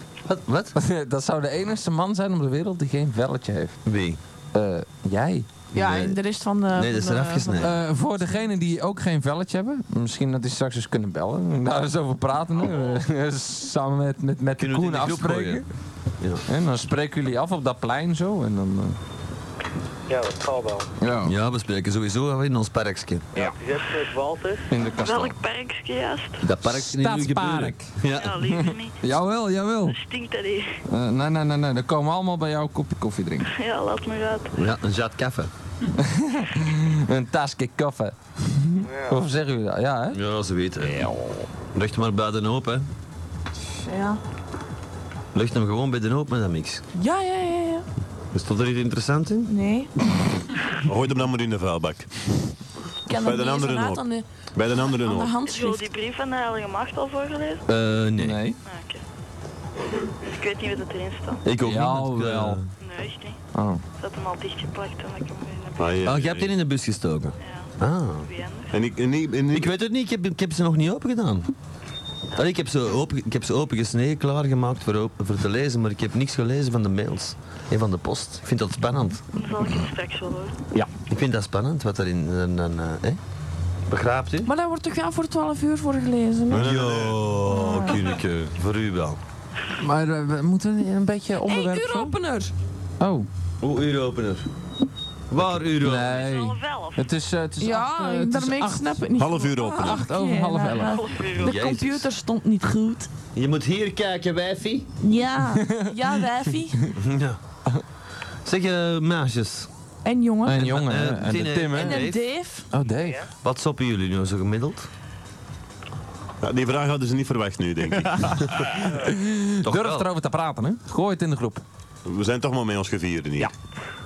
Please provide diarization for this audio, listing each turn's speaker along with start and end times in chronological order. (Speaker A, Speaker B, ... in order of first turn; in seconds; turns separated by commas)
Speaker A: 0.3-0.8, Speaker B: 0.8-3.8, Speaker A: 3.9-4.2, Speaker B: 4.5-5.5, Speaker C: 5.7-7.7, Speaker A: 5.7-6.2, Speaker A: 6.7-7.8, Speaker B: 7.6-15.7, Speaker A: 14.6-15.7, Speaker B: 16.5-19.0, Speaker D: 20.1-20.9, Speaker B: 21.0-21.3, Speaker A: 21.2-23.4, Speaker D: 23.4-24.7, Speaker B: 24.7-25.4, Speaker E: 25.0-26.4, Speaker A: 26.4-28.4, Speaker B: 26.6-30.0, Speaker E: 28.1-29.0, Speaker E: 29.9-30.8, Speaker B: 30.9-33.5, Speaker E: 33.5-34.6, Speaker A: 34.5-35.5, Speaker B: 35.9-40.2, Speaker D: 38.9-39.2, Speaker A: 40.1-41.0, Speaker B: 40.8-41.5, Speaker A: 41.8-42.9, Speaker C: 43.8-44.2, Speaker A: 45.4-46.8, Speaker C: 46.9-47.9, Speaker A: 48.3-49.5, Speaker C: 49.5-49.9, Speaker F: 50.8-52.5, Speaker C: 53.1-54.3, Speaker F: 53.1-54.0, Speaker F: 54.5-55.4, Speaker C: 54.8-55.9, Speaker E: 55.5-57.6, Speaker A: 57.7-58.5, Speaker B: 58.2-58.6, Speaker E: 58.6-59.0, Speaker E: 60.3-61.4, Speaker A: 61.4-62.7, Speaker B: 61.6-62.6, Speaker E: 62.8-63.4, Speaker B: 63.5-63.8, Speaker E: 64.0-66.1, Speaker F: 65.8-66.5, Speaker A: 66.0-68.3, Speaker E: 67.4-68.8, Speaker F: 68.7-69.7, Speaker A: 69.5-71.5, Speaker A: 72.3-79.2, Speaker E: 79.3-80.5, Speaker A: 81.1-83.2, Speaker A: 83.9-84.5, Speaker C: 84.4-86.7, Speaker F: 86.5-87.3, Speaker A: 86.5-89.2, Speaker C: 87.5-88.2, Speaker B: 89.8-92.2, Speaker C: 91.4-92.5, Speaker B: 93.0-93.3, Speaker A: 93.6-94.5, Speaker A: 95.3-96.1, Speaker B: 95.8-99.0, Speaker E: 96.0-97.1, Speaker C: 97.6-103.1, Speaker F: 99.2-100.1, Speaker B: 99.7-101.0, Speaker E: 100.8-101.6, Speaker A: 101.4-102.1, Speaker A: 103.3-104.9, Speaker C: 105.0-106.9, Speaker B: 105.6-105.9, Speaker A: 107.0-107.4, Speaker A: 108.5-109.7, Speaker C: 110.0-110.7, Speaker B: 110.4-112.1, Speaker A: 110.6-112.3, Speaker C: 111.7-112.7, Speaker B: 112.7-113.2, Speaker A: 113.4-114.9, Speaker F: 116.4-118.7, Speaker B: 118.2-121.6, Speaker A: 119.6-120.1, Speaker F: 122.1-123.5